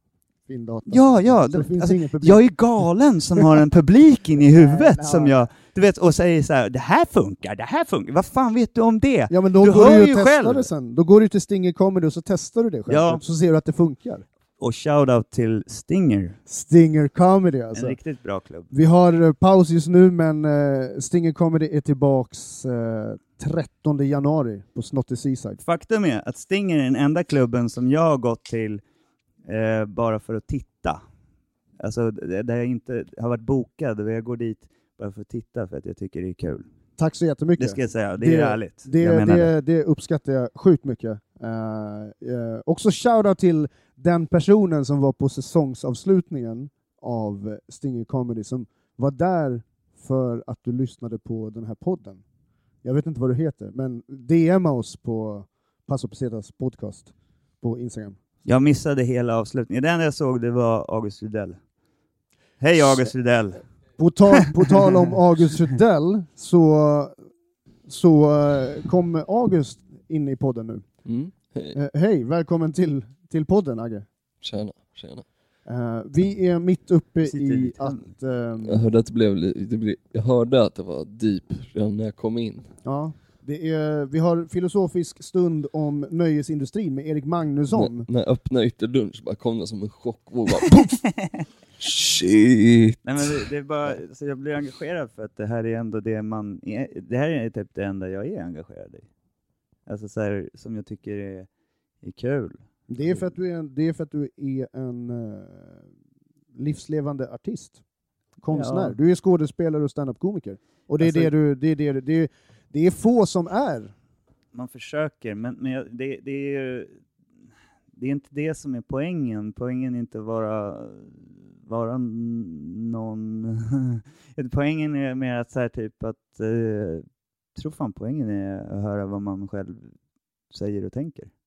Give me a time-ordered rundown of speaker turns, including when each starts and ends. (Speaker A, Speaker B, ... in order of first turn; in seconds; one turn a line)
Speaker A: 0.5-2.4
Speaker B: 0.9-10.7
Speaker A: 4.4-5.5
Speaker A: 9.3-14.2
Speaker B: 12.9-13.2
Speaker B: 14.6-16.4
Speaker A: 16.5-18.0
Speaker B: 17.7-18.7
Speaker A: 18.7-25.6
Speaker B: 25.6-28.8
Speaker B: 29.4-31.0
Speaker B: 31.8-36.6
Speaker A: 37.0-52.2
Speaker B: 37.6-39.5
Speaker A: 52.8-58.2
Speaker B: 58.4-61.6
Speaker B: 62.6-63.6
Speaker A: 64.0-67.2
Speaker B: 64.4-64.9
Speaker A: 67.9-70.9
Speaker C: 71.1-71.8
Speaker A: 71.7-74.1
Speaker C: 74.4-75.2
Speaker A: 75.7-78.8
Speaker B: 77.2-78.1
Speaker C: 78.6-82.7
Speaker A: 82.8-88.1
Speaker C: 87.7-91.1
Speaker C: 91.8-93.4
Speaker B: 93.0-99.1
Speaker B: 99.9-101.5
Speaker B: 102.0-103.3
Speaker A: 102.9-105.8
Speaker A: 106.6-107.8
Speaker A: 108.4-113.9
Speaker B: 108.5-109.0
Speaker B: 111.0-111.3
Speaker B: 114.5-117.0
Speaker B: 117.9-129.9
Speaker B: 130.5-131.3